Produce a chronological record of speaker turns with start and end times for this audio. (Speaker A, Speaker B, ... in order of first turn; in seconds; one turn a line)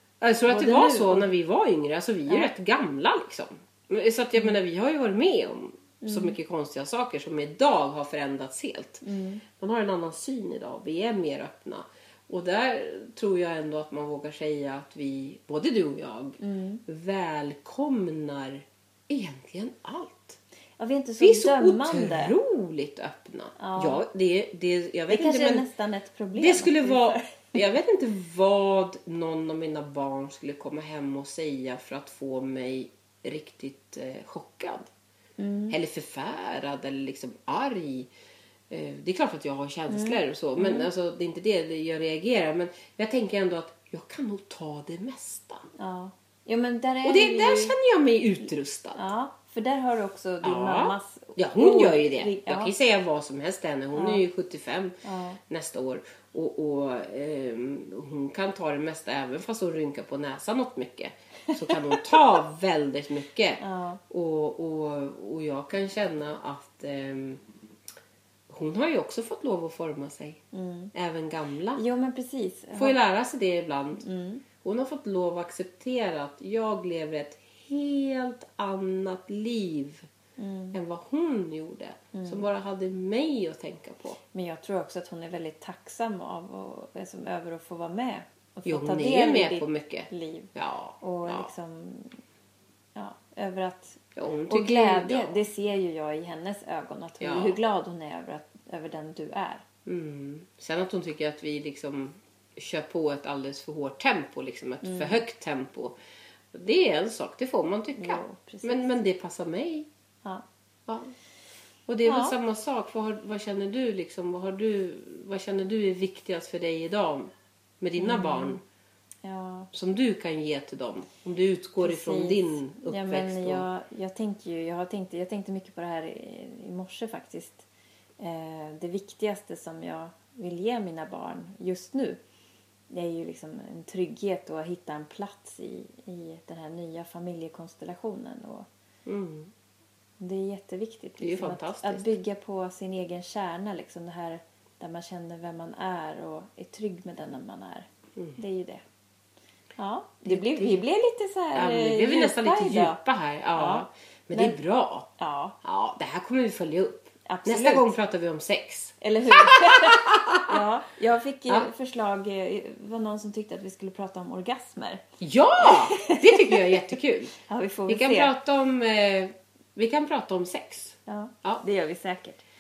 Speaker A: 0.2-9.0
Speaker B: 0.5-1.3
Speaker B: 6.0-6.3
Speaker B: 9.0-9.4
Speaker A: 9.6-20.4
Speaker B: 16.4-16.8
Speaker B: 20.8-22.4
Speaker A: 21.2-25.6
Speaker B: 23.6-24.0
Speaker B: 25.1-27.5
Speaker A: 26.4-34.9
Speaker B: 35.4-35.8
Speaker A: 35.7-38.1
Speaker A: 38.7-45.7
Speaker B: 39.9-40.9
Speaker B: 45.8-47.7
Speaker A: 47.0-49.0
Speaker B: 48.9-52.7
Speaker A: 50.4-54.9
Speaker B: 53.9-54.2
Speaker B: 55.0-55.4
Speaker A: 55.5-67.4
Speaker B: 61.5-62.1
Speaker B: 63.6-64.0
Speaker A: 68.5-70.4
Speaker B: 70.5-70.9
Speaker A: 70.9-71.8
Speaker B: 71.8-73.0
Speaker A: 72.7-74.0
Speaker B: 74.0-74.4
Speaker A: 74.6-80.0
Speaker B: 80.4-80.8
Speaker A: 80.7-84.2
Speaker B: 82.1-82.5
Speaker B: 84.3-92.2
Speaker A: 88.7-91.5
Speaker B: 93.0-94.0
Speaker A: 94.2-95.3
Speaker B: 94.5-99.6
Speaker A: 97.2-97.6
Speaker A: 99.8-105.9
Speaker B: 104.8-105.2
Speaker A: 106.5-109.9
Speaker B: 108.0-108.9
Speaker A: 110.9-111.1
Speaker A: 111.9-117.3
Speaker B: 112.0-112.3
Speaker A: 117.8-118.6
Speaker B: 118.0-118.6
Speaker B: 119.2-119.7
Speaker A: 119.7-123.7
Speaker B: 121.8-127.7
Speaker B: 128.2-132.2
Speaker B: 132.9-138.7
Speaker A: 139.1-139.5
Speaker B: 140.2-148.8
Speaker A: 141.2-142.2
Speaker B: 149.8-153.0
Speaker A: 150.2-150.8
Speaker A: 151.5-155.1
Speaker B: 153.5-154.6
Speaker B: 155.2-155.6
Speaker A: 155.6-160.5
Speaker B: 157.2-157.9
Speaker B: 159.0-165.0
Speaker A: 165.2-167.3
Speaker B: 165.6-166.8
Speaker B: 167.4-168.3
Speaker A: 167.9-171.6
Speaker B: 171.1-172.4